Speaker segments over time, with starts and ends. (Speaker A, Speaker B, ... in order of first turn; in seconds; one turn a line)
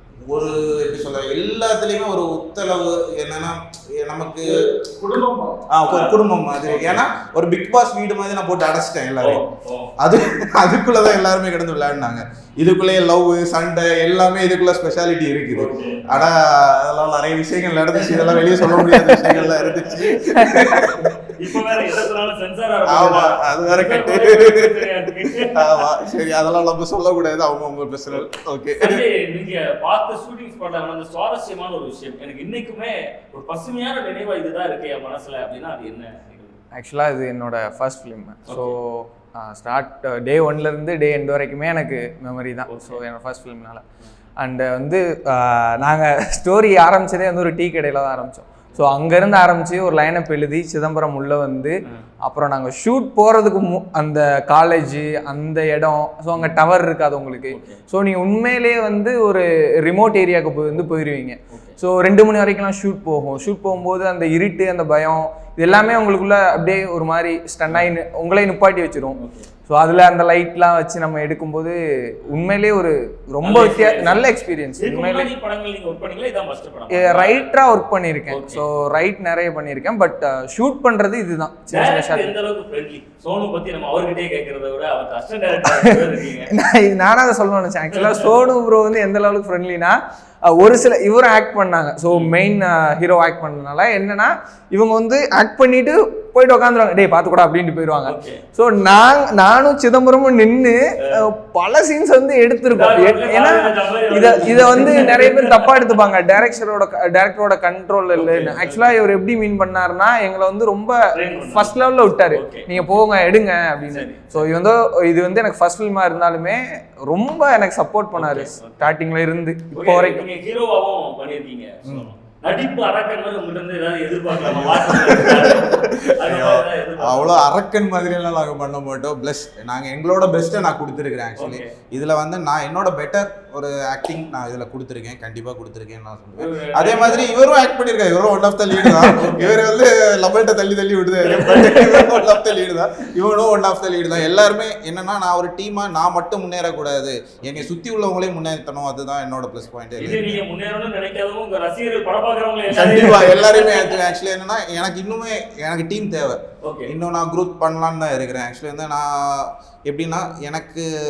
Speaker A: 0.3-4.5
Speaker B: 4.4-7.0
Speaker A: 5.7-9.4
Speaker B: 9.2-9.9
Speaker A: 10.0-21.1
Speaker B: 15.5-16.0
Speaker B: 18.0-20.2
Speaker C: 20.3-20.9
Speaker B: 21.4-25.9
Speaker A: 22.9-29.1
Speaker B: 28.8-36.6
Speaker C: 36.7-43.8
Speaker B: 38.5-38.7
Speaker B: 42.7-43.0
Speaker C: 44.4-75.3
Speaker B: 57.5-57.8
Speaker B: 69.2-69.5
Speaker B: 73.4-77.5
Speaker C: 76.9-82.3
Speaker B: 78.3-78.6
Speaker B: 81.7-86.5
Speaker C: 85.7-86.0
Speaker C: 86.5-90.0
Speaker B: 87.9-88.3
Speaker C: 90.5-120.3
Speaker B: 92.1-92.3
Speaker B: 98.0-98.4
Speaker B: 102.7-105.8
Speaker B: 108.1-109.0
Speaker B: 111.1-112.8
Speaker B: 113.9-114.5
Speaker B: 118.1-118.9
Speaker B: 119.7-127.4
Speaker A: 124.4-150.4
Speaker B: 131.4-131.7
Speaker B: 136.4-137.4
Speaker B: 139.2-139.5
Speaker B: 141.2-142.3
Speaker B: 147.4-147.7
Speaker B: 149.9-154.0
Speaker A: 152.7-160.8
Speaker B: 156.6-156.9